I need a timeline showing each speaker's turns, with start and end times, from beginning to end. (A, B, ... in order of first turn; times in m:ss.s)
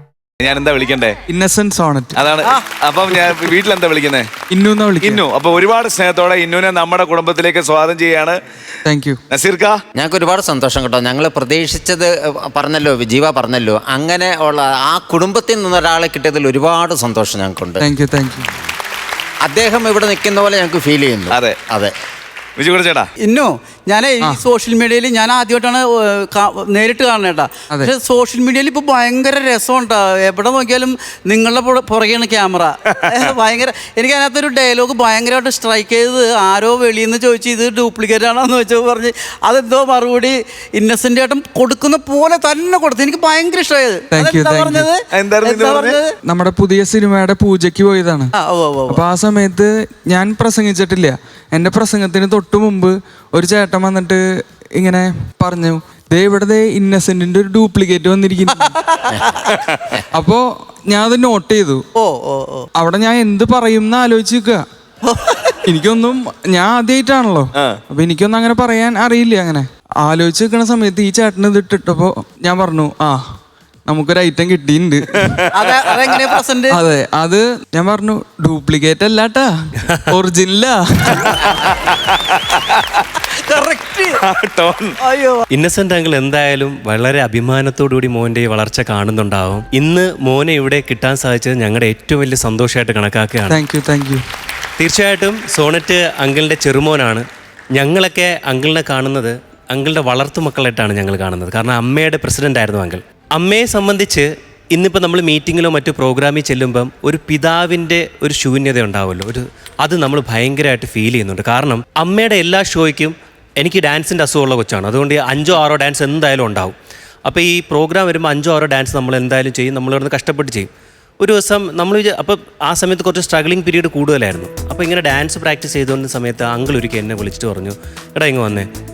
0:00.4-0:01.2 A
0:01.3-0:02.2 B
0:02.2-0:04.3 A
0:04.5-0:05.2 B
0:05.0-0:08.4 A
0:08.8-0:09.2 B
0:09.3-0:09.8 A
0:10.0-0:17.8 C
0:17.8-0:18.5 B
0:19.4-0:21.9 C
0:21.3-0:21.6 A
0:22.6-0:23.1 A
0:23.2-0:46.1 D
0:44.1-0:44.9 B
0:45.1-0:46.0 A
0:46.3-0:48.3 B
0:48.4-0:49.0 D
0:48.9-0:54.2 B
0:54.8-0:58.7 B
0:58.6-0:59.5 D
1:00.1-1:01.8 B
1:02.0-1:02.7 D
1:02.8-1:04.6 B
1:05.0-1:05.6 D
1:05.6-1:13.2 B
1:13.9-1:15.4 B
1:15.2-1:15.5 A
1:15.6-1:16.8 D
1:16.7-1:19.5 B
1:20.0-1:21.4 B
1:21.9-1:23.0 A
1:23.4-1:24.1 D
1:24.2-1:25.0 A
1:25.0-1:25.4 D
1:25.5-1:33.6 E
1:33.5-1:34.2 B
1:34.8-1:37.2 E
1:37.8-1:56.8 E
1:57.3-2:08.7 E